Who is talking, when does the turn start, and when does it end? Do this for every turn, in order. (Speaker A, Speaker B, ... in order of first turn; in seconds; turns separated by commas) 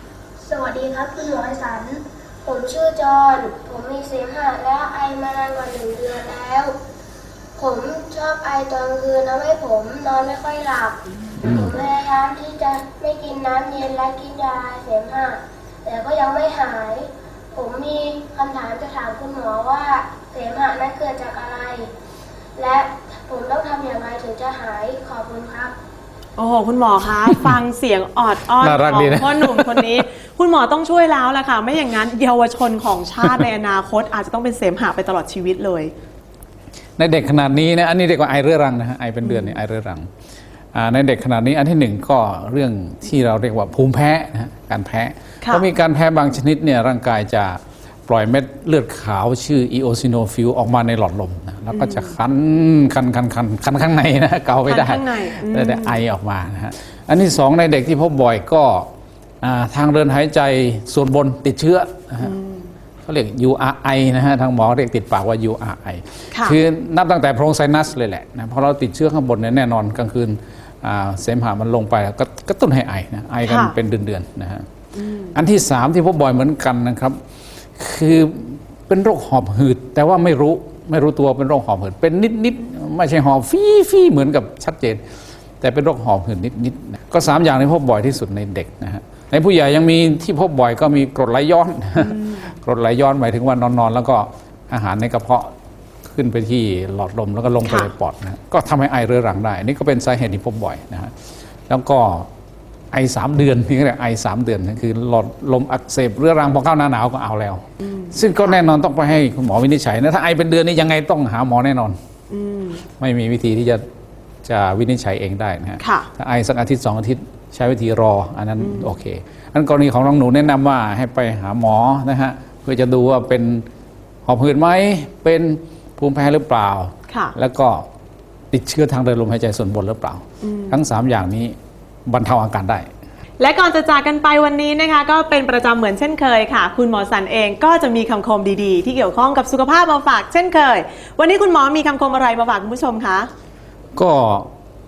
Speaker A: 0.4-6.8, Speaker A: 7.5-21.9, Speaker A: 22.6-25.8, Speaker B: 26.4-35.9, Speaker C: 28.6-30.0, Speaker C: 37.0-40.1, Speaker B: 39.2-39.6, Speaker C: 40.7-58.9, Speaker B: 51.7-52.1, Speaker B: 54.7-56.0, Speaker C: 59.4-62.3, Speaker B: 62.2-62.7, Speaker C: 63.0-74.7, Speaker B: 66.3-66.6, Speaker B: 73.5-73.7, Speaker B: 74.9-75.3, Speaker C: 75.3-77.2, Speaker C: 77.8-85.0, Speaker C: 85.6-95.5, Speaker B: 92.0-92.4, Speaker C: 96.1-101.1, Speaker B: 97.7-97.9, Speaker C: 101.7-102.3, Speaker C: 102.9-112.0, Speaker B: 107.8-108.6, Speaker B: 112.3-112.8, Speaker C: 113.0-113.8, Speaker C: 114.4-123.7, Speaker B: 115.8-116.1, Speaker B: 118.6-118.9, Speaker C: 124.2-127.8, Speaker B: 127.1-127.3, Speaker C: 128.5-131.6, Speaker B: 130.4-130.8, Speaker C: 132.1-132.9, Speaker B: 133.4-143.3, Speaker C: 143.9-144.5